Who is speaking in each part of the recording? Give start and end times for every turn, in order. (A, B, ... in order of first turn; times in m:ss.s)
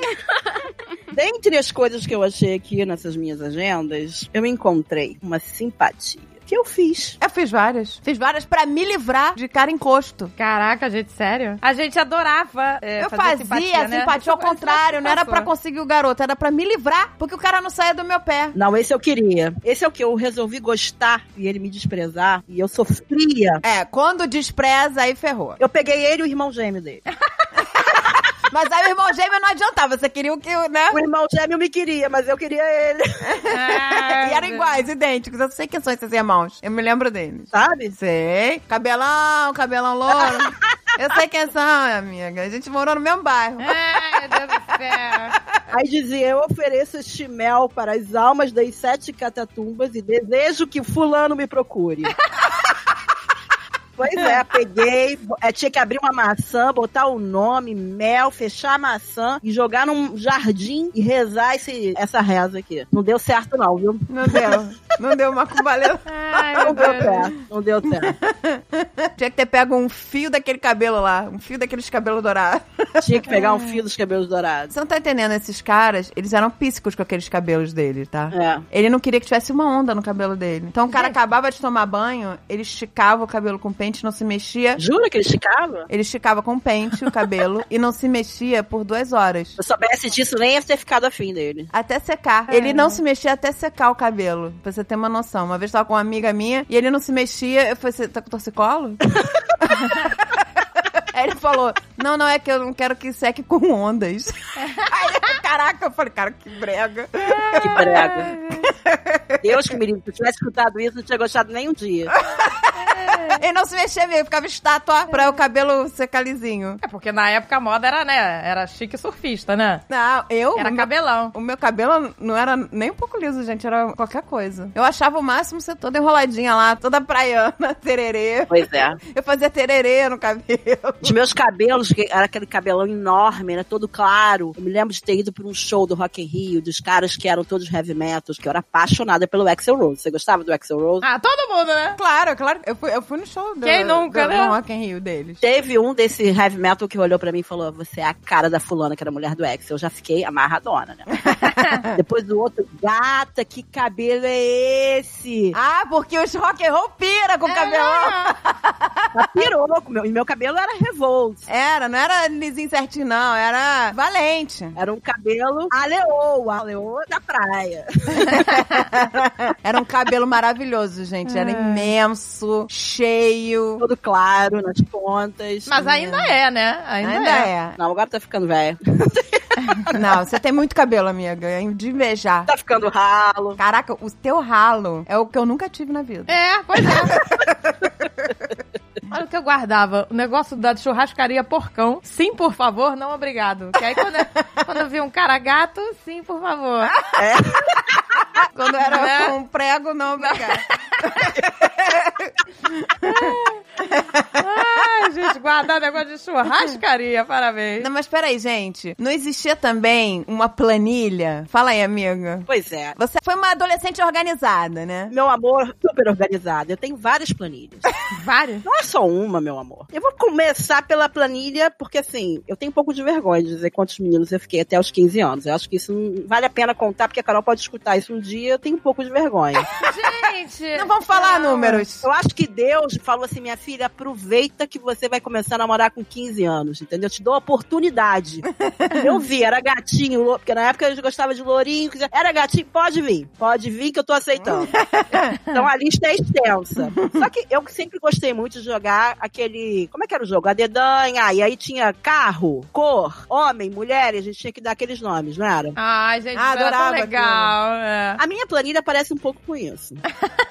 0:01.1-0:07.2 A
0:07.2-0:10.3 B
0:10.4-0:15.5 C
0:13.0-0:18.5 B
0:18.5-0:23.6 A
0:23.6-0:25.6 B
0:25.6-0:27.0 A
0:28.5-0:31.0 B
0:30.9-0:33.4 A
0:33.2-0:44.3 B
0:33.5-0:34.8 C
0:37.5-0:38.0 A
0:40.2-0:40.5 A
0:43.6-0:45.4 C
0:45.7-0:52.2 A
0:54.0-1:04.5 A
1:04.1-1:07.3 B
1:06.1-1:07.3 C
1:06.6-1:08.2 A
1:07.9-1:13.4 B
1:13.0-1:14.7 A
1:13.3-1:13.7 C
1:14.7-1:24.8 B
1:18.3-1:18.6 A
1:24.8-1:25.9 A
1:25.9-1:29.6 B
1:29.6-1:31.7 A
1:31.7-1:39.1 B
1:32.5-1:33.0 C
1:39.6-1:40.2 B
1:40.9-1:49.8 B
1:44.6-1:44.9 C
1:47.4-1:47.9 C
1:47.6-1:48.3 A
1:49.4-1:52.2 A
1:52.2-1:56.8 B
1:52.8-1:53.4 C
1:56.8-1:59.8 C
1:59.9-2:11.2 B
2:00.6-2:01.3 C
2:08.5-2:09.0 A
2:11.0-2:21.0 A
2:21.0-2:22.0 C
2:22.0-2:25.4 B
2:23.6-2:24.6 C
2:25.4-2:31.2 A
2:31.3-2:31.9 B
2:31.9-2:35.6 A
2:35.5-2:39.5 B
2:37.5-2:38.3 C
2:39.2-2:41.5 A
2:41.5-2:44.8 B
2:44.8-2:48.5 A
2:48.2-2:53.8 B
2:51.3-2:51.9 C
2:53.8-2:55.9 A
2:55.7-2:57.5 C
2:57.0-2:57.8 B
2:57.8-3:00.0 A
2:59.9-3:02.5 B
3:02.5-3:03.6 A
3:03.6-3:06.4 B
3:06.3-3:07.2 C
3:07.0-3:07.9 B
3:09.1-3:17.0 C
3:17.2-3:18.3 A
3:18.5-3:23.4 B
3:18.8-3:19.4 C
3:20.2-3:21.3 C
3:23.0-3:23.6 C
3:23.9-3:24.4 B
3:24.4-3:27.9 C
3:27.8-3:35.1 B
3:32.5-3:33.0 A
3:35.1-3:37.9 A
3:38.1-3:38.6 C
3:38.6-3:49.7 A
3:49.8-3:51.8 C
3:50.7-3:52.1 B
3:52.0-4:04.8 A
3:58.7-3:59.1 B
4:04.4-4:05.4 B
4:05.5-4:15.8 A
4:15.8-4:18.2 C
4:16.4-4:17.5 B
4:18.2-4:20.0 A